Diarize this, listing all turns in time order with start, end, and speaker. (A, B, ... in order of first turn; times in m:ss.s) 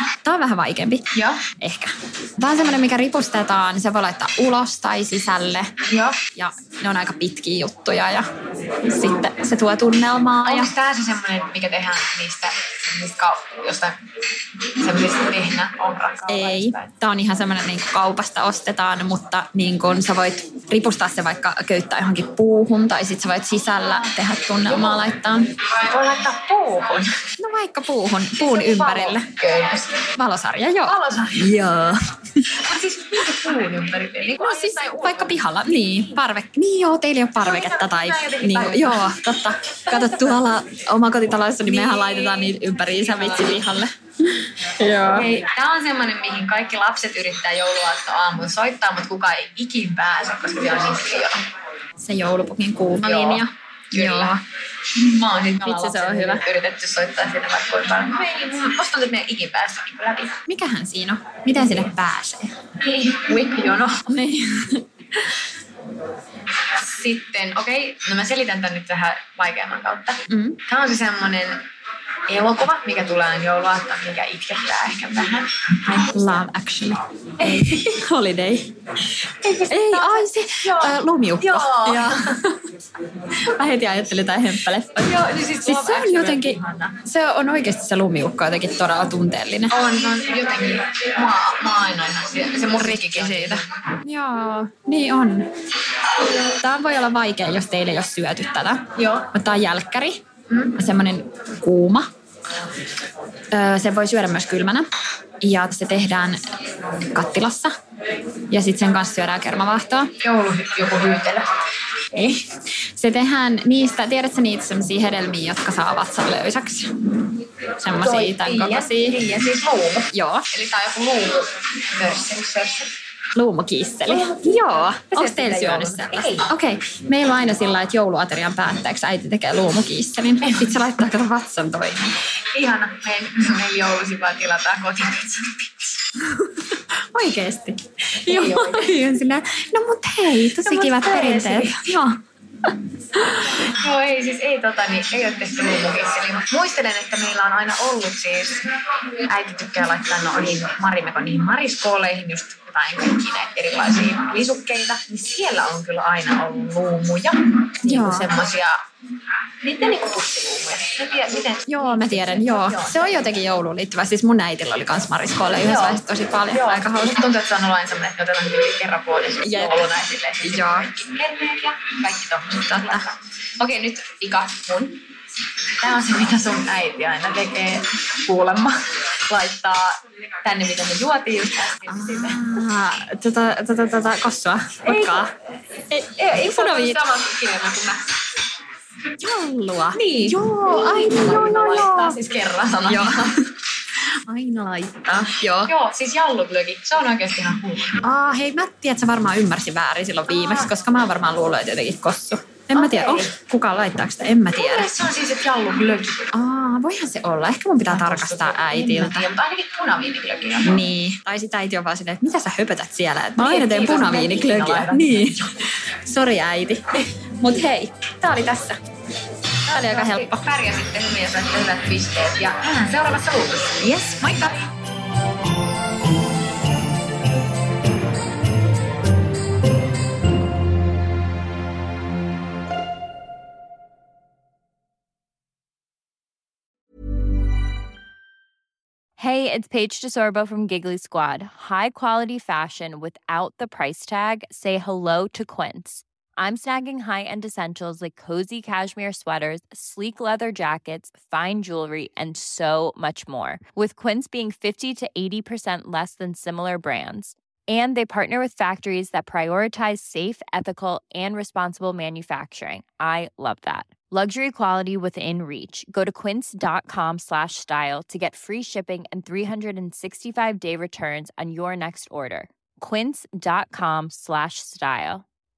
0:00.2-0:01.1 A
0:01.1-0:01.4 B
0:01.6-0:05.7 A
0:05.9-0:06.2 B
0:06.3-0:08.3 A
0:08.8-0:10.7 A
0:10.4-0:14.0 B
0:14.8-0:16.9 B
0:16.3-0:25.5 A
0:24.7-0:25.0 B
0:25.7-0:27.2 B
0:27.4-0:29.3 A
0:28.4-0:30.0 B
0:30.2-0:32.6 A
0:30.8-0:31.5 B
0:32.6-0:35.4 B
0:34.4-0:45.3 A
0:37.4-0:39.1 B
0:39.9-0:40.4 B
0:41.6-0:43.5 B
0:45.1-0:51.4 B
0:52.0-0:54.4 A
0:53.0-0:54.4 B
0:55.0-1:00.4 B
0:55.5-0:56.4 A
1:00.5-1:02.6 A
1:02.8-1:04.1 B
1:04.1-1:05.2 A
1:06.8-1:11.6 B
1:10.3-1:10.6 A
1:12.3-1:15.5 B
1:15.9-1:18.7 A
1:19.4-1:22.2 B
1:19.7-1:22.7 A
1:23.4-1:29.8 A
1:25.0-1:27.0 B
1:29.7-1:33.6 B
1:32.8-1:35.5 A
1:36.4-1:40.2 A
1:39.0-1:39.3 B
1:40.8-1:42.1 A
1:43.5-1:44.9 A
1:45.4-1:46.4 A
1:47.1-1:47.7 A
1:48.5-1:50.1 A
1:50.2-1:51.5 B
1:52.1-1:52.4 A
1:53.0-1:57.0 A
1:57.8-1:59.2 A
1:58.0-2:02.9 B
2:00.1-2:00.5 A
2:03.3-2:12.2 A
2:04.1-2:06.5 B
2:10.4-2:10.7 B
2:12.5-2:16.0 B
2:16.3-2:22.2 A
2:18.3-2:19.1 B
2:20.6-2:21.9 B
2:23.2-2:23.5 A
2:23.6-2:28.7 B
2:29.3-2:38.8 B
2:37.8-2:38.3 A
2:39.6-2:43.4 B
2:41.7-2:47.2 A
2:45.5-2:55.0 B
2:49.4-2:50.9 A
2:52.6-2:53.1 A
2:55.8-2:59.9 B
3:00.4-3:02.4 B
3:01.9-3:05.3 A
3:04.9-3:05.2 B
3:05.9-3:07.0 A
3:06.2-3:08.2 B
3:09.2-3:12.2 A
3:09.9-3:13.3 B
3:12.8-3:13.4 A
3:14.3-3:15.7 A
3:15.6-3:18.0 B
3:18.0-3:24.9 A
3:20.4-3:20.7 B
3:22.7-3:23.3 B
3:24.5-3:26.3 B
3:26.3-3:29.3 A
3:27.9-3:30.8 B
3:30.6-3:38.8 A
3:33.4-3:35.4 B
3:39.7-3:44.6 B
3:39.7-3:40.5 A
3:43.8-3:44.6 A
3:59.2-4:35.2 C